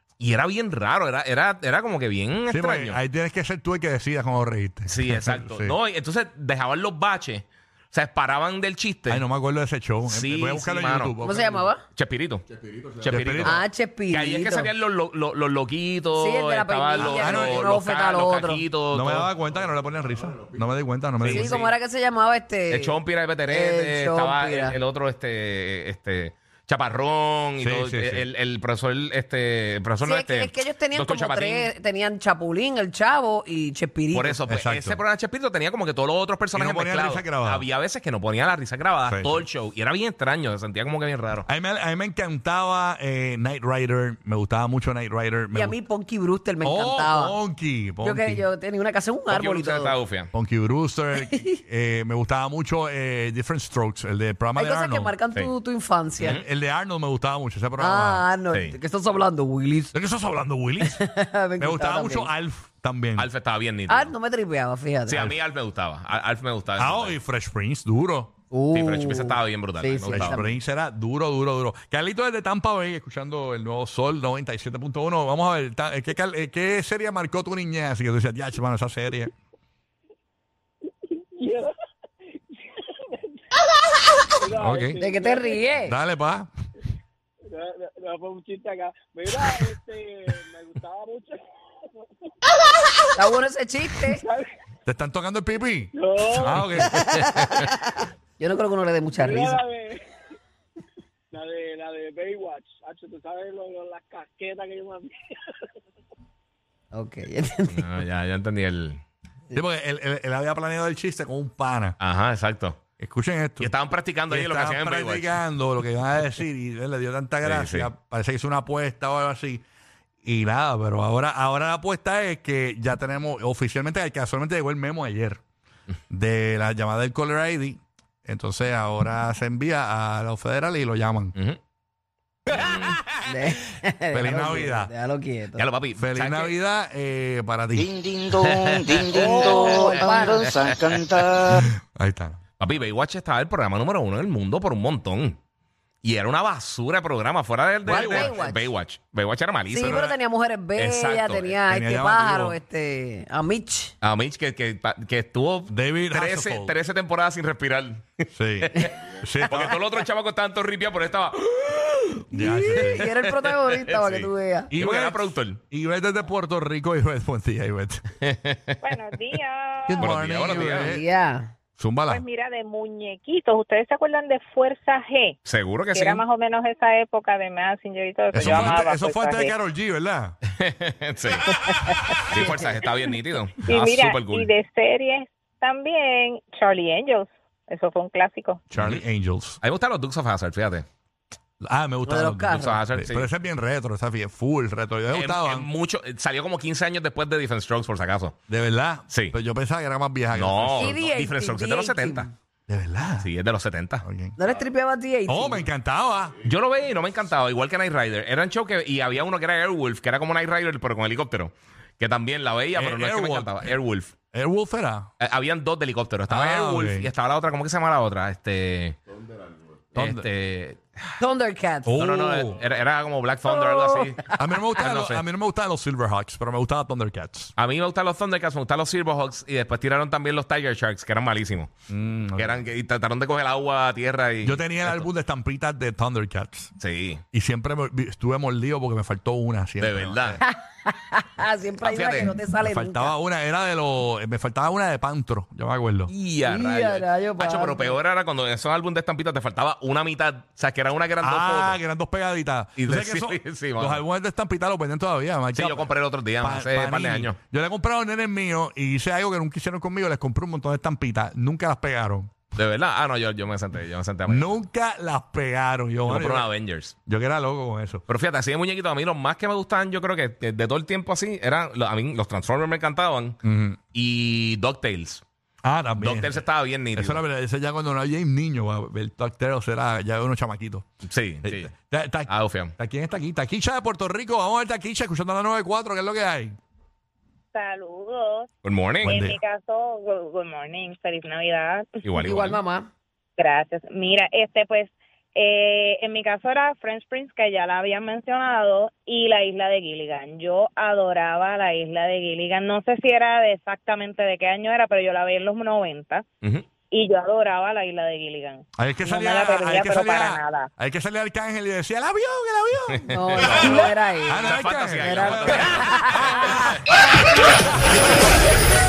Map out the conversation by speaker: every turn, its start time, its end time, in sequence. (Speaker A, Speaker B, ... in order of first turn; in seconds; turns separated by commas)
Speaker A: 0.2-3.0, Speaker B: 2.5-5.8, Speaker A: 4.9-9.2, Speaker B: 9.1-11.7, Speaker A: 10.1-11.1, Speaker C: 11.2-11.8, Speaker A: 11.9-12.4, Speaker A: 13.0-19.3, Speaker B: 13.0-13.6, Speaker C: 13.4-14.7, Speaker C: 16.1-18.6, Speaker B: 16.9-17.8, Speaker B: 18.9-21.6, Speaker A: 21.2-21.7, Speaker C: 21.3-24.8, Speaker A: 22.7-31.7, Speaker B: 27.6-28.2, Speaker C: 30.0-34.4, Speaker A: 34.1-41.5, Speaker B: 34.5-35.0, Speaker B: 36.5-37.6, Speaker B: 39.0-39.4, Speaker B: 41.5-45.8, Speaker C: 45.5-47.4, Speaker B: 46.6-48.4, Speaker C: 48.0-49.9, Speaker A: 49.3-50.3, Speaker B: 50.3-55.1, Speaker C: 51.2-51.5, Speaker C: 54.5-56.4, Speaker A: 56.2-56.4, Speaker B: 56.2-58.2, Speaker C: 57.8-59.9, Speaker A: 58.5-58.8, Speaker B: 59.9-61.0, Speaker C: 60.8-62.3, Speaker B: 61.6-63.3, Speaker A: 63.2-64.1, Speaker C: 63.9-65.3, Speaker A: 65.1-67.2, Speaker B: 66.8-68.3, Speaker C: 68.5-70.5, Speaker A: 68.7-70.4, Speaker B: 70.1-79.3, Speaker D: 81.4-81.7, Speaker D: 84.4-85.6, Speaker B: 84.5-85.0, Speaker C: 85.0-86.0, Speaker B: 85.8-86.5, Speaker D: 87.5-91.4, Speaker C: 93.1-94.2, Speaker D: 93.9-94.5, Speaker B: 94.8-97.0, Speaker D: 95.9-96.7, Speaker C: 96.9-99.6, Speaker D: 99.2-100.0, Speaker D: 101.3-105.4, Speaker C: 106.9-108.0, Speaker A: 107.7-109.0, Speaker B: 109.5-112.0, Speaker A: 112.0-112.8, Speaker B: 113.0-113.7, Speaker A: 113.6-115.4, Speaker B: 114.3-119.6, Speaker A: 117.4-117.9, Speaker B: 120.2-125.4, Speaker B: 126.1-131.3, Speaker A: 132.5-133.0, Speaker C: 133.2-135.7, Speaker B: 134.1-134.9, Speaker A: 135.6-136.6, Speaker B: 136.0-138.1, Speaker E: 137.7-141.6, Speaker A: 138.4-140.8, Speaker C: 139.1-140.6, Speaker B: 141.4-142.4, Speaker A: 142.6-145.4, Speaker A: 146.0-150.1, Speaker C: 147.8-148.7, Speaker B: 147.9-148.4, Speaker C: 149.7-153.9, Speaker B: 149.8-150.2, Speaker A: 150.7-151.6, Speaker B: 151.7-152.6, Speaker A: 154.0-158.9, Speaker B: 155.7-156.7, Speaker B: 158.3-159.8, Speaker A: 159.4-162.2, Speaker B: 162.3-163.1, Speaker C: 162.3-164.7, Speaker A: 162.9-165.6, Speaker B: 164.7-168.0, Speaker A: 168.2-168.8, Speaker F: 168.8-170.2, Speaker B: 169.9-171.0, Speaker A: 170.0-170.9, Speaker C: 170.6-171.5, Speaker B: 171.8-172.2, Speaker F: 172.1-175.3, Speaker A: 175.4-176.2, Speaker F: 175.9-179.5, Speaker B: 178.3-180.4, Speaker A: 178.4-178.8, Speaker A: 180.6-181.6, Speaker A: 182.3-184.5, Speaker F: 183.7-188.6, Speaker B: 188.7-189.6, Speaker A: 188.8-189.0, Speaker A: 189.6-190.8, Speaker B: 191.6-195.7, Speaker C: 192.1-192.8, Speaker A: 192.5-193.3, Speaker A: 195.1-198.3, Speaker B: 198.5-201.0, Speaker A: 199.1-199.3, Speaker A: 200.3-202.3, Speaker C: 200.7-202.3, Speaker B: 202.7-203.3, Speaker A: 203.2-204.0, Speaker B: 204.0-204.3, Speaker C: 204.4-205.7, Speaker B: 205.3-206.4, Speaker A: 206.4-214.1, Speaker B: 212.8-213.7, Speaker B: 214.3-215.1, Speaker A: 215.2-219.0, Speaker B: 216.3-217.1, Speaker B: 219.9-220.3, Speaker A: 219.9-221.1, Speaker C: 221.2-222.0, Speaker B: 221.8-222.6, Speaker A: 222.0-225.2, Speaker C: 223.4-224.2, Speaker B: 224.3-227.5, Speaker A: 227.6-231.7, Speaker B: 231.9-232.6, Speaker A: 232.3-235.1, Speaker B: 234.4-236.7, Speaker A: 236.8-237.2, Speaker B: 237.3-240.4, Speaker A: 239.8-240.4, Speaker C: 240.4-243.1, Speaker A: 241.8-242.3, Speaker B: 242.6-246.1, Speaker A: 246.1-251.8, Speaker C: 246.4-248.0, Speaker B: 251.2-262.4, Speaker A: 252.8-254.0, Speaker A: 255.5-257.4, Speaker A: 262.5-264.6, Speaker B: 264.3-266.5, Speaker A: 266.0-266.9, Speaker B: 267.1-268.0, Speaker A: 268.1-273.4, Speaker B: 273.4-273.8, Speaker A: 273.9-275.2, Speaker B: 275.6-276.4, Speaker A: 276.0-277.2, Speaker B: 276.9-280.9, Speaker A: 281.0-281.7, Speaker B: 281.4-286.6, Speaker A: 282.3-282.7, Speaker F: 287.5-288.5, Speaker A: 288.6-289.2, Speaker B: 289.0-289.4, Speaker F: 289.0-292.0, Speaker A: 292.0-292.6, Speaker C: 292.1-292.9, Speaker F: 293.4-306.2, Speaker F: 306.9-310.7, Speaker B: 308.8-316.8, Speaker A: 312.9-316.6, Speaker C: 313.1-316.6, Speaker B: 317.6-318.0